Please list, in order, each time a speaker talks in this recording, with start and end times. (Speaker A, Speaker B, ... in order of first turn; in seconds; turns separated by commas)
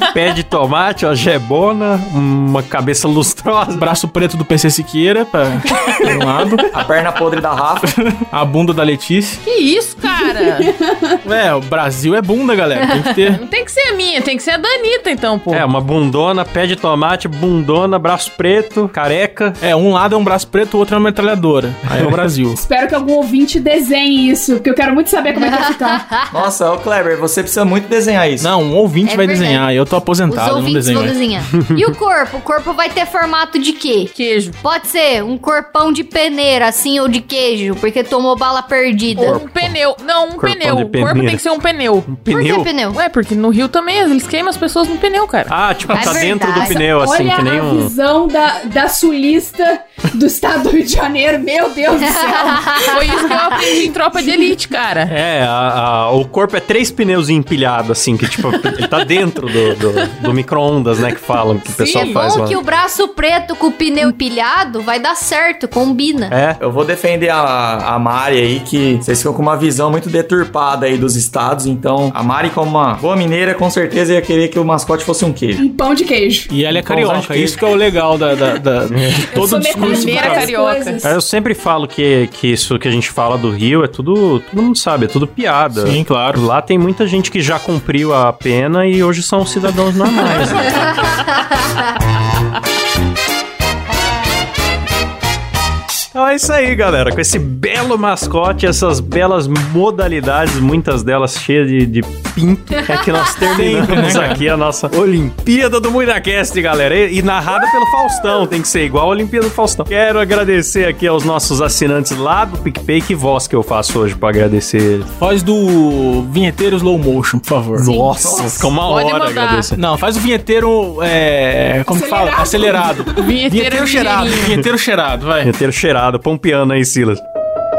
Speaker A: 0.1-3.8, Speaker B: 3.7-6.7, Speaker C: 6.7-7.9, Speaker B: 7.8-9.4, Speaker D: 9.4-10.7, Speaker E: 10.6-11.2, Speaker B: 11.2-13.4, Speaker D: 13.3-15.7, Speaker A: 15.5-19.6, Speaker B: 19.6-22.6, Speaker E: 22.5-26.0, Speaker F: 25.4-26.4, Speaker C: 26.3-28.5, Speaker B: 28.4-31.1, Speaker F: 29.0-29.6, Speaker F: 30.3-39.4, Speaker D: 34.1-34.6, Speaker A: 39.1-39.8, Speaker D: 39.1-42.2, Speaker A: 40.4-41.4, Speaker A: 42.1-42.7, Speaker F: 42.3-43.0, Speaker D: 42.9-45.5, Speaker A: 45.5-47.9, Speaker F: 45.9-46.8, Speaker E: 46.6-53.1, Speaker F: 52.0-53.4, Speaker D: 52.8-55.1, Speaker A: 55.1-62.6, Speaker F: 61.7-66.3, Speaker D: 62.0-62.3, Speaker A: 66.3-66.6, Speaker C: 66.6-75.6, Speaker E: 75.6-76.5, Speaker B: 76.5-80.5, Speaker A: 76.7-77.6, Speaker A: 78.9-79.3, Speaker E: 79.3-81.2, Speaker D: 79.7-81.0, Speaker A: 81.0-91.2, Speaker B: 85.8-86.4, Speaker A: 96.1-115.1, Speaker B: 103.4-104.5, Speaker B: 115.2-117.9, Speaker A: 117.7-119.8, Speaker C: 117.9-118.7, Speaker D: 118.8-119.7, Speaker B: 119.8-125.5, Speaker E: 121.9-123.2, Speaker D: 123.2-124.6, Speaker A: 125.4-127.2